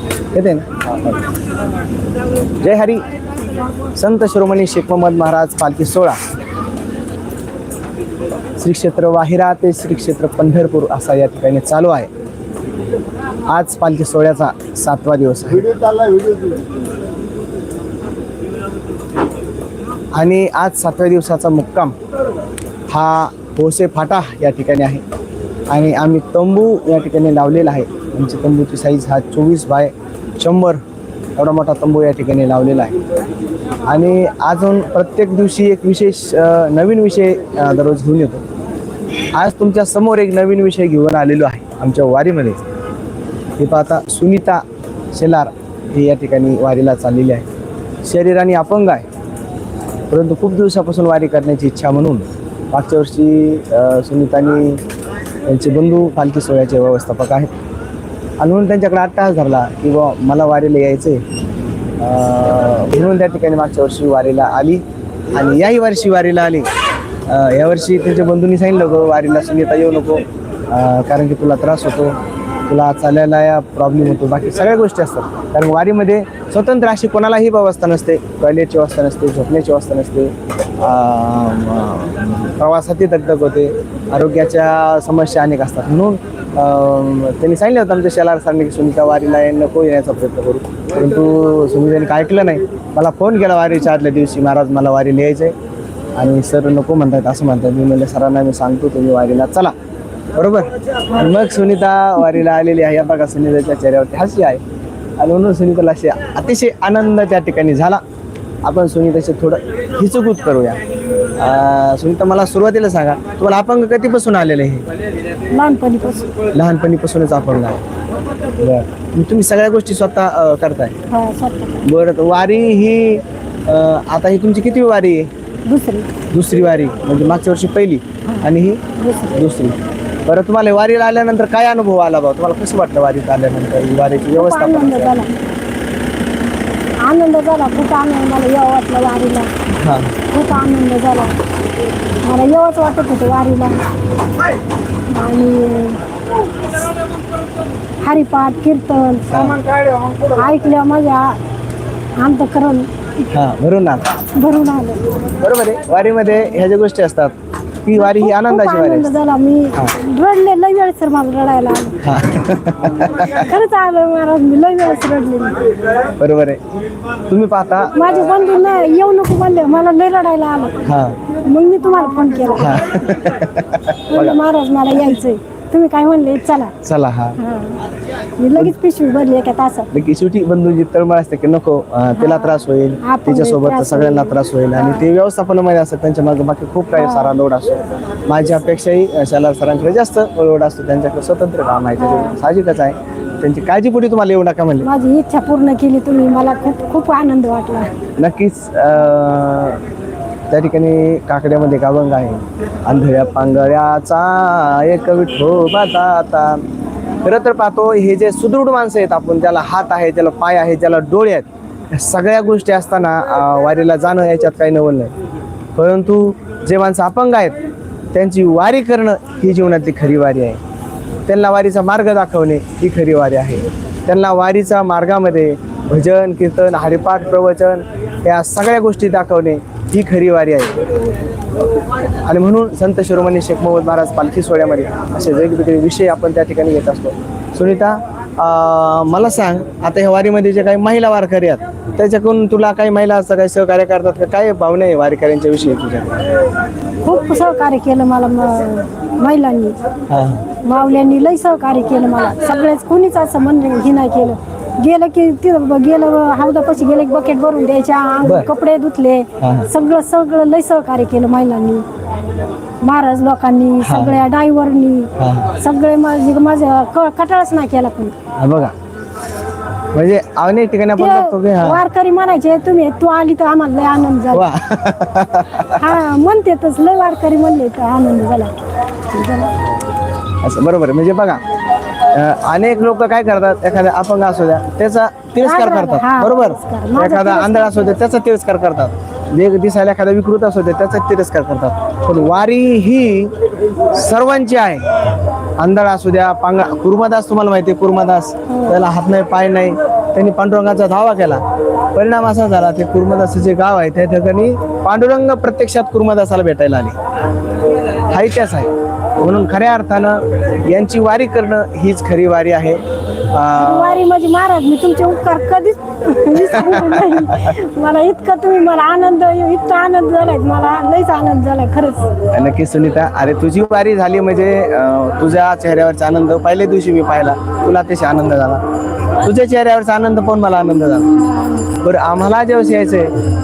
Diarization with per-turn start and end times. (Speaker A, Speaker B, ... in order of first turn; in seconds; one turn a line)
Speaker A: 0.3-1.2
Speaker A: 2.6-3.0
Speaker A: 4.0-6.2
Speaker A: 8.6-12.1
Speaker A: 13.5-15.9
Speaker A: 20.1-21.9
Speaker A: 22.9-25.0
Speaker A: 25.7-30.8
Speaker A: 31.4-33.0
Speaker A: 33.9-38.4
Speaker A: 39.3-42.6
Speaker A: 43.6-47.5
Speaker A: 48.0-49.0
Speaker A: 50.1-54.8
Speaker A: 55.5-57.5
Speaker A: 58.4-61.2
Speaker A: 62.0-66.7
Speaker A: 67.3-95.5
Speaker A: 96.2-99.7
Speaker A: 100.3-104.6
Speaker A: 105.2-108.0
Speaker A: 108.6-110.8
Speaker A: 111.4-114.9
Speaker B: 115.5-116.3
Speaker A: 116.5-117.8
Speaker A: 118.6-120.9
Speaker B: 121.1-121.9
Speaker A: 121.8-125.3
Speaker B: 125.7-126.1
Speaker A: 126.3-135.1
Speaker B: 128.3-129.4
Speaker B: 134.3-135.3
Speaker B: 137.0-139.5
Speaker A: 139.8-140.1
Speaker B: 140.3-141.4
Speaker B: 142.2-143.8
Speaker B: 145.1-146.0
Speaker B: 148.0-149.6
Speaker A: 149.3-149.6
Speaker B: 150.2-151.4
Speaker B: 152.2-152.9
Speaker A: 153.3-154.1
Speaker B: 154.4-155.0
Speaker A: 155.4-157.3
Speaker A: 157.8-159.2
Speaker B: 157.9-162.0
Speaker A: 162.0-163.4
Speaker B: 163.1-165.6
Speaker A: 166.2-166.6
Speaker A: 167.3-167.9
Speaker B: 167.9-170.9
Speaker A: 170.8-171.2
Speaker B: 171.4-172.9
Speaker A: 172.6-174.4
Speaker B: 174.1-176.7
Speaker A: 176.8-177.4
Speaker B: 177.4-177.8
Speaker B: 178.4-179.9
Speaker A: 179.9-194.9
Speaker B: 182.2-185.1
Speaker B: 186.9-187.3
Speaker B: 192.0-192.4
Speaker B: 194.8-197.9
Speaker A: 198.2-199.8
Speaker A: 200.5-206.6
Speaker A: 207.2-215.1
Speaker A: 215.8-217.6
Speaker A: 218.1-220.6
Speaker A: 221.3-230.8
Speaker A: 232.2-246.2
Speaker B: 247.0-249.8
Speaker A: 250.1-250.5
Speaker B: 250.6-261.9
Speaker A: 258.2-258.5
Speaker A: 259.4-259.7
Speaker B: 262.8-268.1
Speaker A: 263.8-264.2
Speaker A: 265.2-265.5
Speaker A: 268.4-268.7
Speaker A: 269.9-271.8
Speaker B: 271.0-274.4
Speaker A: 274.3-275.9
Speaker B: 275.8-279.5
Speaker A: 280.4-281.4
Speaker A: 282.1-293.3
Speaker B: 285.4-288.0
Speaker A: 293.9-294.8
Speaker A: 295.6-301.4
Speaker B: 298.5-298.8
Speaker A: 301.9-307.0
Speaker A: 308.1-314.0
Speaker B: 313.6-322.1
Speaker A: 316.4-317.5
Speaker A: 322.3-328.6
Speaker A: 329.2-331.1
Speaker B: 331.3-331.6
Speaker A: 331.8-333.1